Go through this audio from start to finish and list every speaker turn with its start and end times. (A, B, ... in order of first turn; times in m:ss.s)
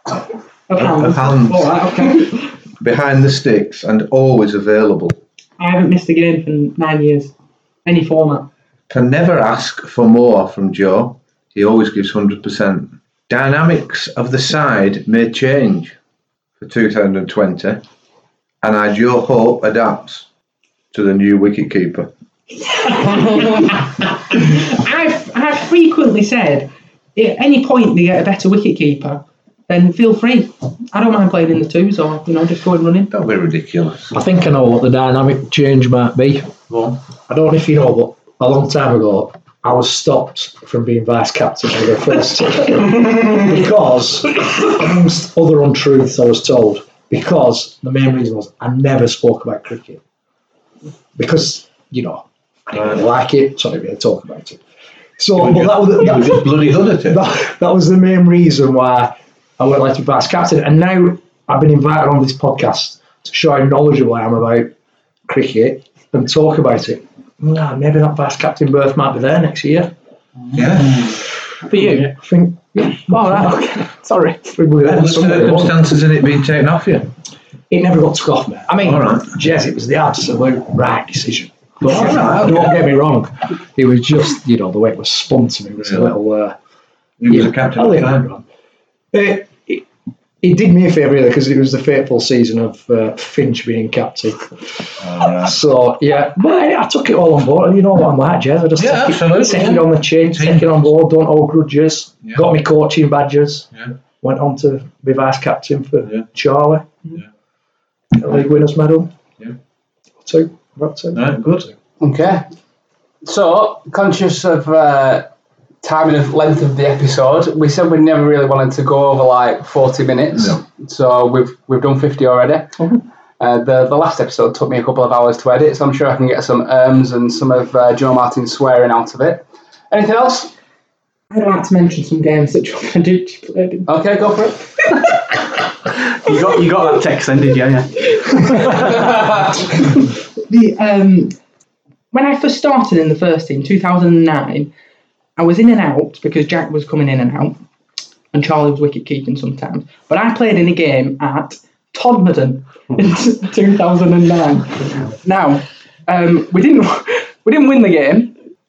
0:00.7-0:02.5 A
0:00.8-0:01.7 B
0:02.8-0:05.2 B
0:05.6-0:07.3 A
0:07.8-0:08.5 A
0:08.9-0:16.0 B
0:16.6-0:17.8 B
0:18.6-0:20.2 B
0:20.9-0:22.1 B
0:22.7-0:33.1 A
0:33.1-0:34.1 B
0:34.1-0:36.5 C
0:36.7-0:37.0 B
0:37.3-0:50.0 C
0:51.2-0:54.6 C
0:55.2-1:04.7 C
0:55.4-0:57.2 B
1:05.3-1:09.9 C
1:10.5-1:11.1 B
1:11.7-1:12.1 A
1:12.0-1:13.6 C
1:12.9-1:14.6 A
1:14.5-1:15.9 C
1:14.8-1:17.1 B
1:17.7-1:26.5 C
1:18.8-1:19.3 B
1:21.8-1:22.8 B
1:27.2-1:28.2 B
1:27.3-1:28.4 C
1:29.1-1:29.8 C
1:30.4-1:43.7 C
1:35.0-1:35.6 B
1:38.8-1:40.8 B
1:44.2-1:47.1 C
1:48.1-1:49.1 C
1:50.2-1:51.7 C
1:51.1-1:51.6 B
1:52.0-1:52.4 D
1:53.2-1:55.3 D
1:55.8-2:02.8 D
2:03.4-2:10.5 D
2:11.3-2:13.9 A
2:13.9-2:14.6 D
2:15.9-2:18.9 E
2:20.5-2:21.3 A
2:22.1-2:24.7 A
2:25.4-2:27.6 A
2:28.3-2:38.3 A